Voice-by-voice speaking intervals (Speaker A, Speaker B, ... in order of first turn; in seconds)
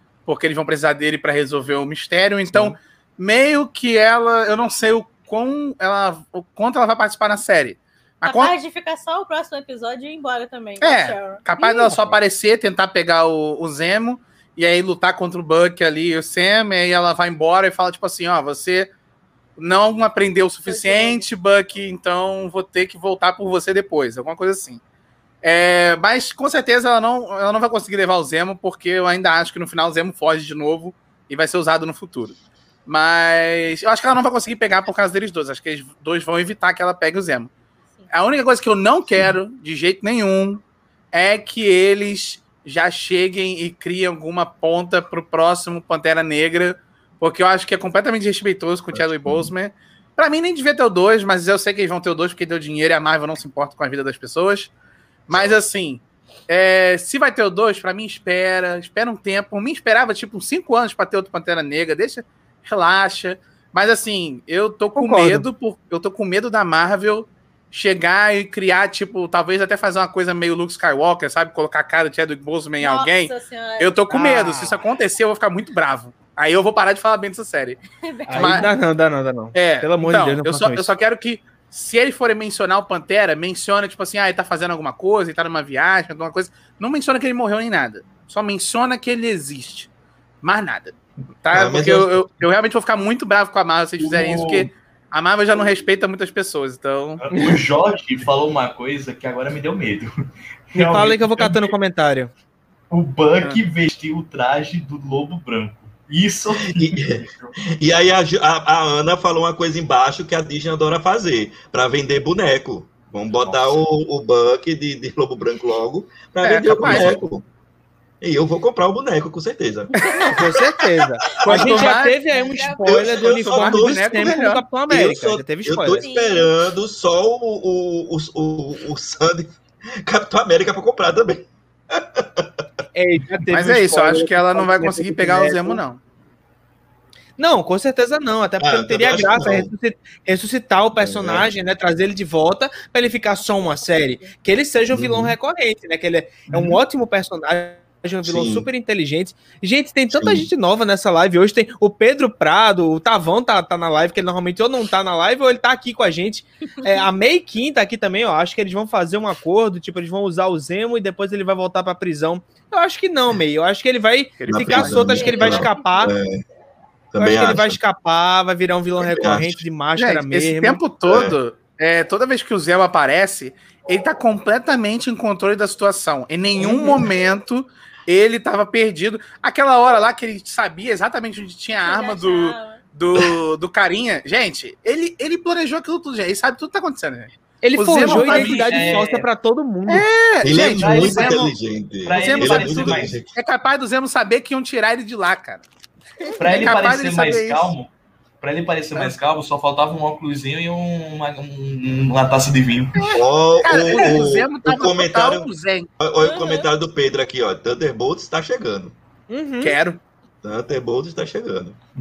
Speaker A: 0.2-8.5, 10.8-18.9, 19.6-24.8, 25.4-37.5, 38.1-54.7, 55.3-77.8, 78.3-78.7, 79.5-89.9, 90.4-97.2, 116.5-117.2, 121.4-122.2, 123.2-124.6, 133.5-136.0, 164.4-165.3, 170.0-189.0, 189.9-191.5, 192.1-195.6, 196.4-197.7, 202.9-205.9, 209.6-210.0
Speaker B: 8.2-12.0, 20.7-21.2, 72.8-74.0, 77.9-78.7, 120.0-120.3, 122.2-123.1, 126.0-126.5, 165.2-165.7, 181.7-182.8, 196.2-196.5, 206.2-206.7
Speaker C: 48.9-49.5, 91.5-92.2, 106.6-117.4, 118.2-120.2, 121.3-121.9, 122.8-132.5, 138.6-139.7, 141.0-141.5, 144.9-145.3, 148.2-148.7, 150.1-150.5, 164.5-166.4, 167.1-167.8, 169.0-169.6, 171.1-171.4, 190.4-193.3, 203.1-205.5, 206.0-208.9, 210.4-211.8
Speaker D: 64.9-65.5, 74.1-74.8, 78.3-80.9, 100.7-102.3, 116.4-117.2, 120.3-126.1, 132.9-135.8, 137.4-166.1, 167.2-170.8, 187.6-190.1, 209.3-209.8
Speaker E: 94.0-94.7, 97.2-100.1, 100.7-101.7, 102.9-107.5, 188.0-189.3, 190.4-193.2, 196.4-197.9, 198.4-203.1